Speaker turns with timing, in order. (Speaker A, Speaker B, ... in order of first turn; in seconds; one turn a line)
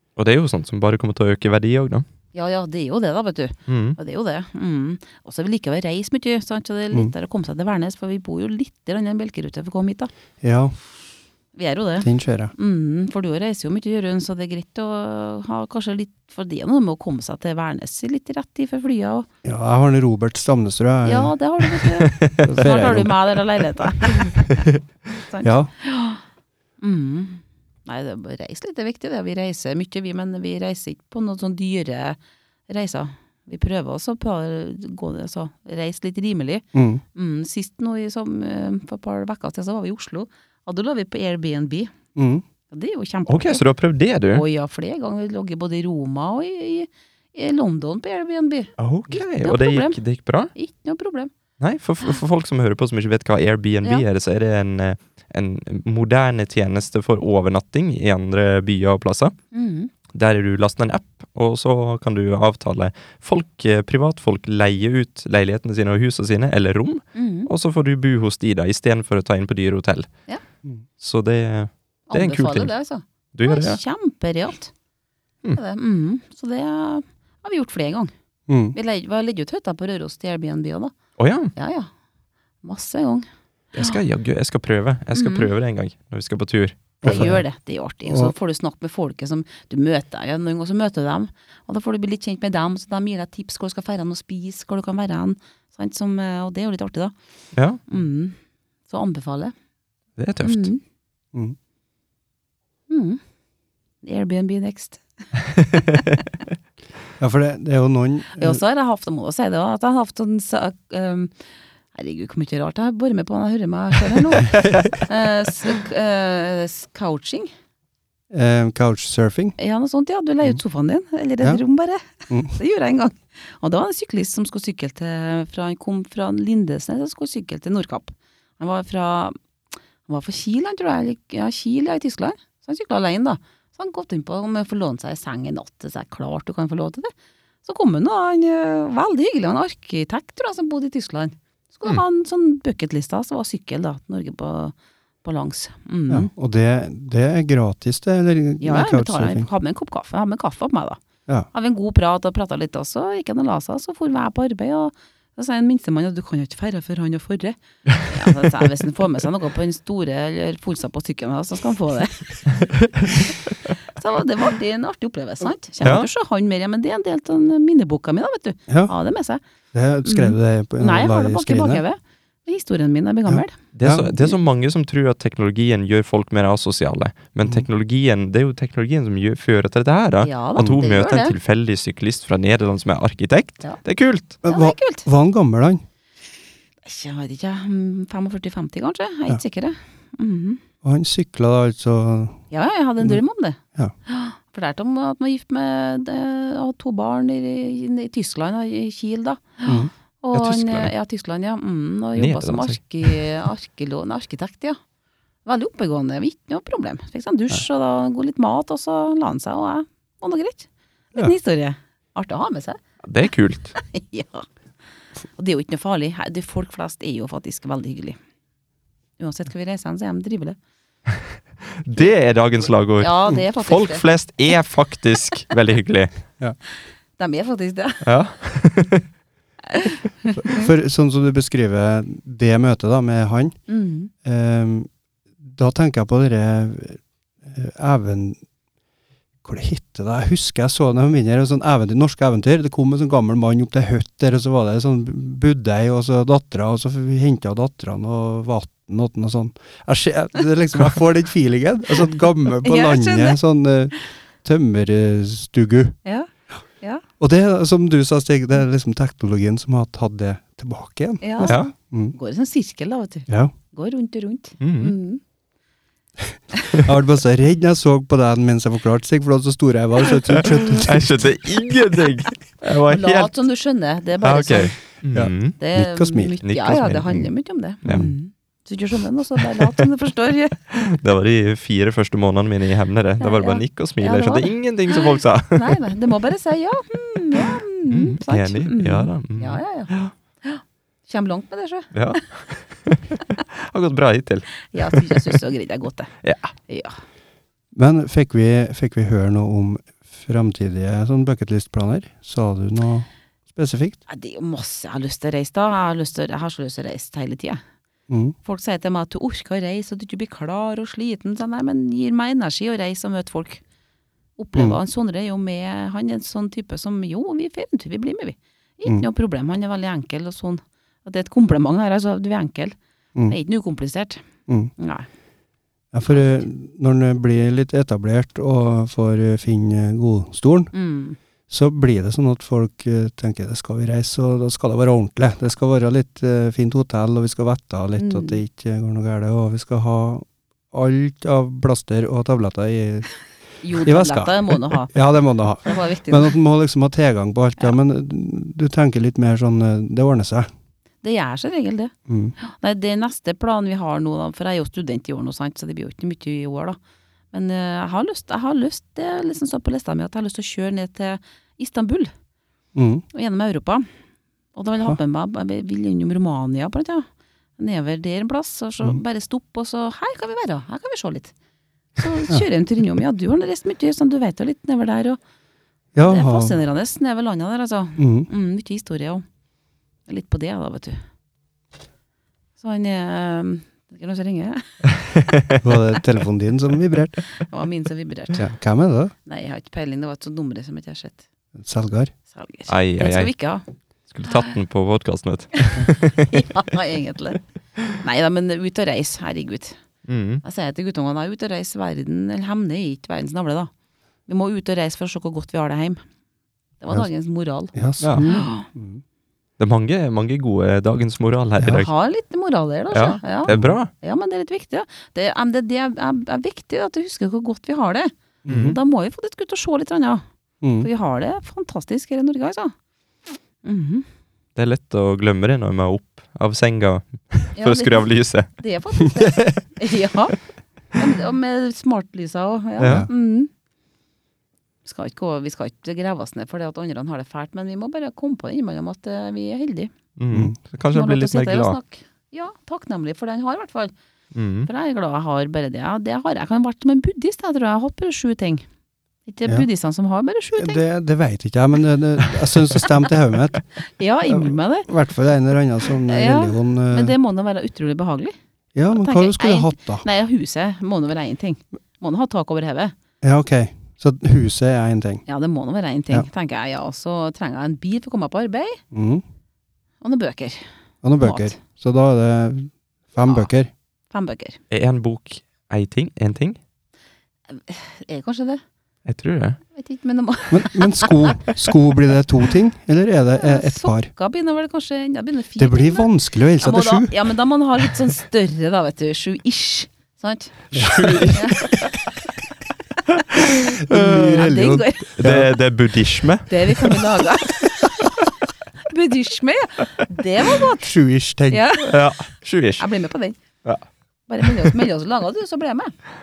Speaker A: 0.2-2.0
Speaker B: 2.3-10.1
Speaker A: 3.7-4.0
Speaker C: 10.4-10.7
Speaker B: 11.5-19.3
Speaker C: 12.0-12.5
Speaker C: 19.4-21.3
Speaker B: 21.0-24.6
Speaker A: 22.0-22.9
Speaker C: 22.4-23.1
Speaker B: 25.2-26.2
Speaker C: 25.4-25.7
Speaker B: 26.8-41.9
Speaker C: 36.7-37.0
Speaker C: 42.1-42.4
Speaker B: 42.7-43.6
Speaker A: 43.3-44.4
Speaker B: 44.3-48.7
Speaker A: 48.8-50.5
Speaker B: 49.4-50.0
Speaker B: 50.5-51.3
Speaker A: 51.6-59.3
Speaker B: 59.5-59.9
Speaker A: 60.1-70.1
Speaker B: 67.1-67.5
Speaker A: 71.0-72.7
Speaker B: 72.1-74.7
Speaker A: 73.3-73.8
Speaker B: 75.5-78.1
Speaker C: 78.5-78.8
Speaker B: 78.7-80.9
Speaker A: 81.2-81.5
Speaker B: 81.5-81.9
Speaker B: 82.6-83.3
Speaker A: 83.7-87.3
Speaker B: 85.1-85.5
Speaker C: 87.0-87.4
Speaker B: 87.0-97.1
Speaker C: 88.0-88.3
Speaker B: 97.9-98.3
Speaker B: 98.9-99.5
Speaker A: 100.2-100.7
Speaker B: 100.4-100.8
Speaker B: 102.9-103.2
Speaker B: 104.0-105.0
Speaker C: 107.2-108.6
Speaker B: 108.3-111.3
Speaker B: 111.9-117.5
Speaker C: 118.3-119.5
Speaker B: 119.6-129.4
Speaker C: 122.3-122.5
Speaker B: 130.0-137.1
Speaker B: 137.6-146.3
Speaker C: 146.1-149.5
Speaker B: 148.6-151.0
Speaker B: 151.5-163.3
Speaker B: 163.8-169.4
Speaker A: 165.8-166.1
Speaker C: 169.7-171.8
Speaker B: 170.0-173.6
Speaker C: 173.3-174.2
Speaker A: 173.7-184.3
Speaker B: 180.2-181.3
Speaker C: 184.4-185.8
Speaker B: 184.4-185.1
Speaker B: 186.8-190.6
Speaker C: 190.8-192.4
Speaker B: 192.5-204.8
Speaker C: 199.6-199.9
Speaker A: 200.3-200.9
Speaker A: 202.2-203.2
Speaker B: 205.4-212.8
Speaker A: 213.0-213.7
Speaker B: 213.8-214.5
Speaker B: 215.3-218.2
Speaker B: 219.2-220.6
Speaker A: 221.7-226.1
Speaker B: 223.0-224.0
Speaker B: 227.2-228.0
Speaker A: 228.0-229.0
Speaker B: 229.7-230.7
Speaker C: 230.4-233.6
Speaker B: 233.7-234.1
Speaker C: 234.2-234.9
Speaker C: 235.4-238.4
Speaker C: 239.4-256.0
Speaker B: 252.6-253.4
Speaker C: 257.2-262.1
Speaker B: 261.2-261.5
Speaker A: 261.4-261.7
Speaker B: 262.1-265.2
Speaker C: 263.3-263.5
Speaker A: 264.6-264.9
Speaker C: 266.2-271.0
Speaker A: 270.4-273.3
Speaker B: 272.9-274.8
Speaker A: 274.2-275.6
Speaker C: 275.1-276.4
Speaker B: 275.6-280.6
Speaker A: 276.4-277.3
Speaker A: 277.8-278.1
Speaker A: 280.7-285.8
Speaker B: 283.2-289.9
Speaker A: 287.9-290.1
Speaker B: 290.4-291.9
Speaker A: 291.9-295.4
Speaker B: 294.7-296.1
Speaker A: 296.2-296.5
Speaker B: 296.7-297.0
Speaker C: 297.7-304.0
Speaker B: 304.1-307.6
Speaker C: 308.1-308.3
Speaker B: 308.4-313.6
Speaker B: 314.4-324.2
Speaker C: 324.5-324.7
Speaker B: 324.8-325.1
Speaker C: 325.9-330.7
Speaker B: 326.1-326.4
Speaker B: 330.7-331.2
Speaker C: 331.5-343.1
Speaker B: 338.0-338.4
Speaker B: 343.6-344.9
Speaker C: 343.7-350.5
Speaker B: 345.6-346.3
Speaker B: 351.0-356.8
Speaker C: 352.1-352.4
Speaker B: 357.3-362.1
Speaker C: 362.7-363.0
Speaker B: 363.1-363.8
Speaker B: 364.5-371.3
Speaker B: 372.0-375.2
Speaker C: 375.9-376.6
Speaker B: 376.1-379.2
Speaker C: 378.0-378.3
Speaker B: 380.1-381.0
Speaker B: 382.6-384.9
Speaker A: 385.1-385.6
Speaker C: 385.6-387.2
Speaker B: 387.4-388.4
Speaker C: 388.4-389.1
Speaker B: 389.2-391.2
Speaker C: 391.6-392.1
Speaker B: 392.3-393.6
Speaker A: 392.7-393.3
Speaker A: 394.1-396.4
Speaker B: 396.3-397.4
Speaker B: 398.0-399.8
Speaker A: 400.1-400.4
Speaker B: 400.4-403.7
Speaker B: 404.3-406.0
Speaker B: 406.8-408.6
Speaker C: 407.7-409.0
Speaker A: 408.0-408.3
Speaker A: 409.6-411.9
Speaker C: 411.6-411.8
Speaker B: 411.7-420.2
Speaker A: 412.9-413.9
Speaker C: 413.5-413.8
Speaker C: 418.4-418.8
Speaker A: 418.5-418.8
Speaker C: 420.6-420.9
Speaker B: 420.8-422.7
Speaker B: 423.6-424.1
Speaker A: 424.6-428.5
Speaker B: 427.6-430.4
Speaker B: 430.9-433.5
Speaker A: 432.8-433.1
Speaker C: 432.8-433.1
Speaker B: 434.8-439.9
Speaker A: 440.2-441.8
Speaker B: 440.9-443.9
Speaker A: 444.3-444.7
Speaker B: 444.6-448.6
Speaker B: 449.3-450.8
Speaker C: 450.5-453.7
Speaker B: 453.8-454.9
Speaker C: 454.2-457.1
Speaker B: 456.1-458.3
Speaker C: 458.7-460.1
Speaker B: 458.9-462.9
Speaker C: 463.2-465.2
Speaker B: 465.3-468.8
Speaker C: 468.9-469.2
Speaker B: 470.0-470.6
Speaker C: 471.0-473.7
Speaker B: 471.2-471.6
Speaker B: 474.1-474.6
Speaker A: 474.7-476.6
Speaker B: 477.5-478.6
Speaker A: 479.1-479.6
Speaker B: 479.7-481.6
Speaker C: 480.5-484.1
Speaker B: 483.4-492.0
Speaker C: 485.6-487.1
Speaker C: 490.7-491.3
Speaker A: 490.7-491.4
Speaker B: 493.3-495.2
Speaker C: 493.8-495.5
Speaker A: 495.2-497.0
Speaker B: 496.5-498.1
Speaker B: 498.8-500.9
Speaker C: 500.8-501.8
Speaker B: 501.5-502.1
Speaker A: 501.9-502.9
Speaker B: 502.8-503.4
Speaker B: 504.3-505.9